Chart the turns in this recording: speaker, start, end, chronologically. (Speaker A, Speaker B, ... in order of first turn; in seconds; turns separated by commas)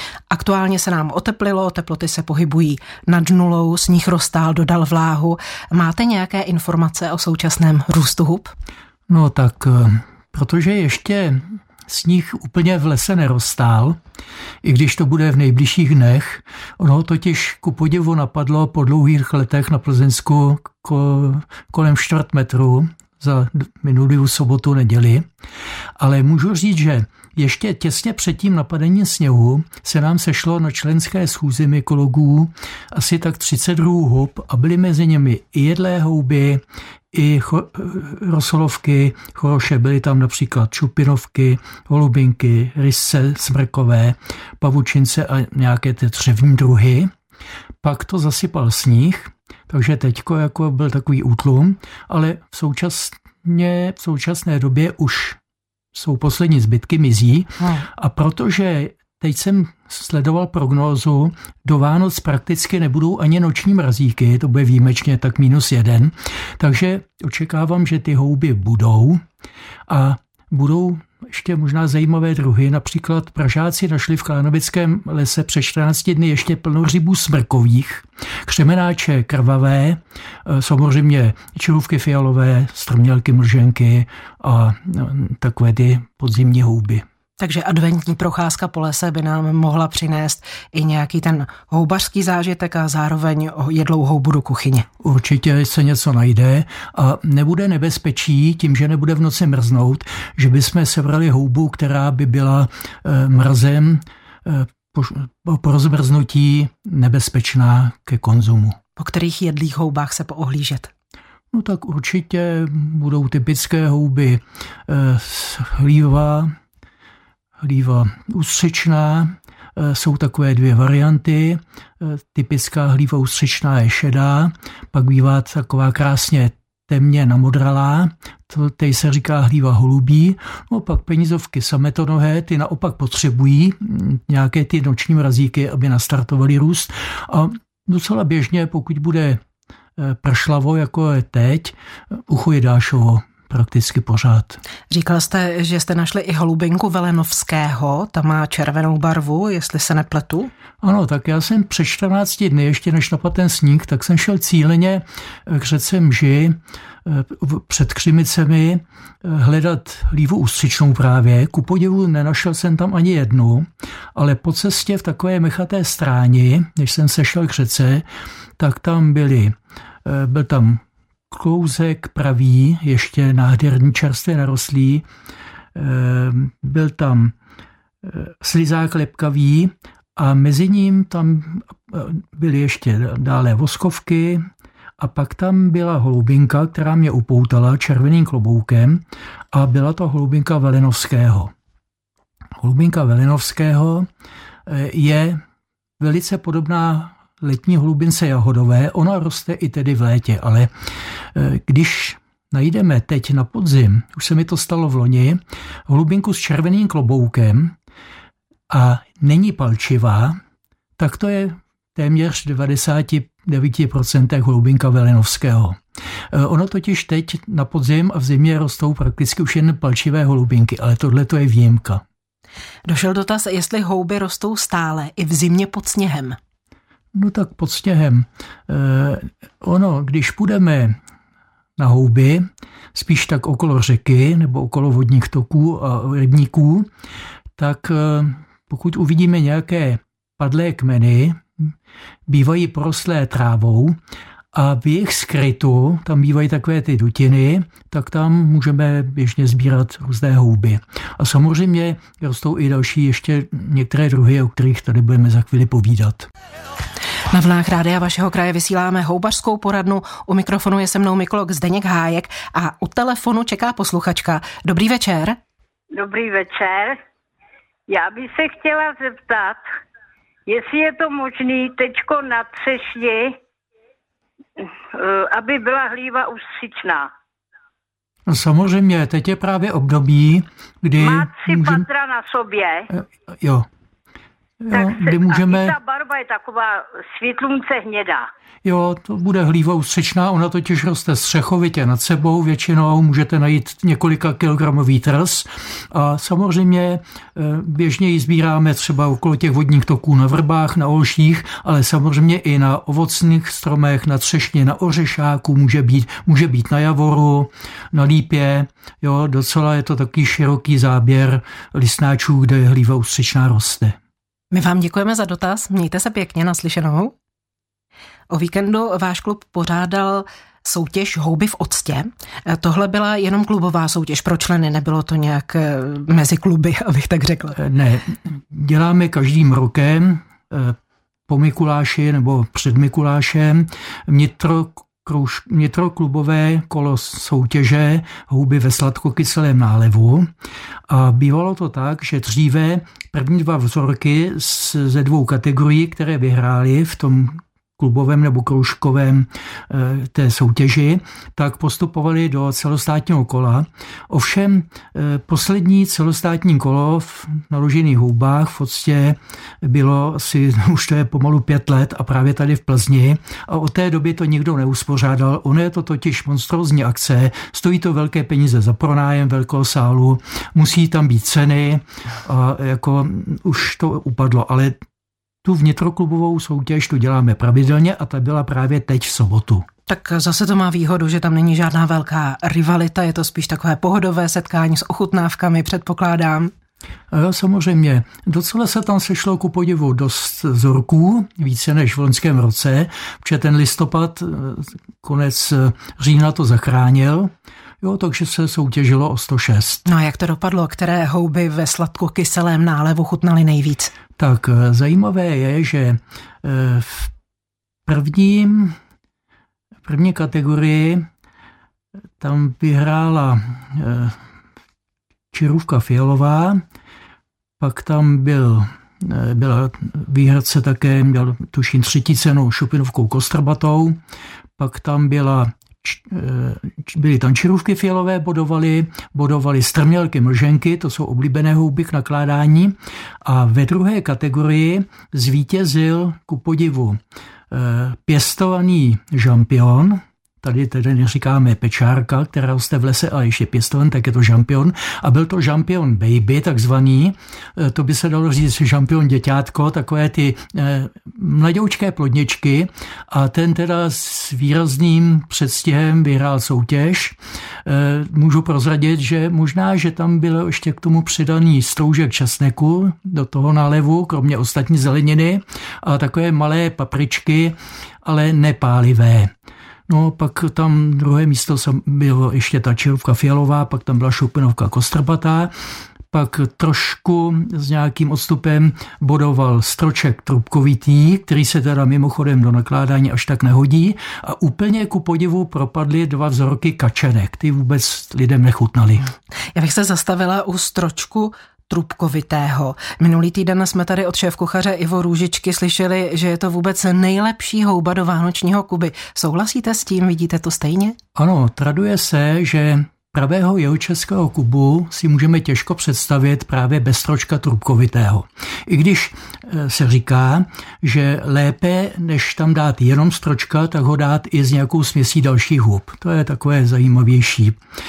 Speaker A: 0.3-8.5, Speaker B: 9.1-14.0, Speaker B: 14.6-25.3, Speaker B: 26.0-47.1, Speaker B: 47.8-55.4, Speaker B: 55.9-69.2, Speaker B: 69.9-87.0, Speaker A: 87.4-94.9, Speaker B: 95.0-108.8, Speaker A: 109.0-110.9, Speaker B: 111.5-116.5, Speaker B: 117.6-139.4, Speaker B: 140.0-144.6, Speaker A: 144.9-150.5, Speaker B: 150.8-168.1, Speaker B: 168.6-175.1, Speaker B: 175.8-177.3, Speaker B: 178.0-184.5, Speaker B: 185.0-191.5, Speaker B: 192.6-194.1, Speaker B: 194.7-195.4, Speaker B: 196.0-200.7, Speaker B: 201.3-207.8, Speaker B: 208.7-210.4, Speaker B: 211.0-215.8, Speaker B: 216.3-222.0, Speaker A: 222.9-226.4, Speaker B: 227.1-231.0, Speaker B: 231.8-236.9, Speaker B: 237.6-241.7, Speaker B: 242.3-244.0, Speaker B: 244.5-256.3, Speaker A: 257.3-265.4, Speaker C: 265.9-267.0, Speaker C: 267.9-269.6, Speaker C: 270.5-273.4, Speaker C: 274.6-277.1, Speaker B: 278.3-281.9, Speaker C: 281.0-282.9, Speaker B: 282.9-283.7, Speaker B: 284.6-285.8, Speaker C: 284.7-288.3, Speaker B: 288.6-314.0, Speaker A: 314.5-317.1, Speaker A: 318.3-327.6, Speaker B: 327.6-330.8, Speaker B: 331.3-340.3, Speaker B: 340.9-374.8, Speaker B: 375.4-379.7, Speaker A: 379.9-386.5, Speaker B: 387.1-399.9, Speaker A: 399.9-403.9, Speaker B: 404.2-407.1, Speaker B: 407.9-408.8, Speaker B: 409.9-411.1, Speaker B: 412.2-414.2, Speaker B: 415.3-416.6, Speaker B: 417.6-424.0, Speaker B: 424.6-437.0, Speaker B: 437.5-469.3, Speaker B: 469.9-475.5, Speaker B: 476.1-489.1, Speaker A: 489.6-501.0, Speaker B: 501.1-517.6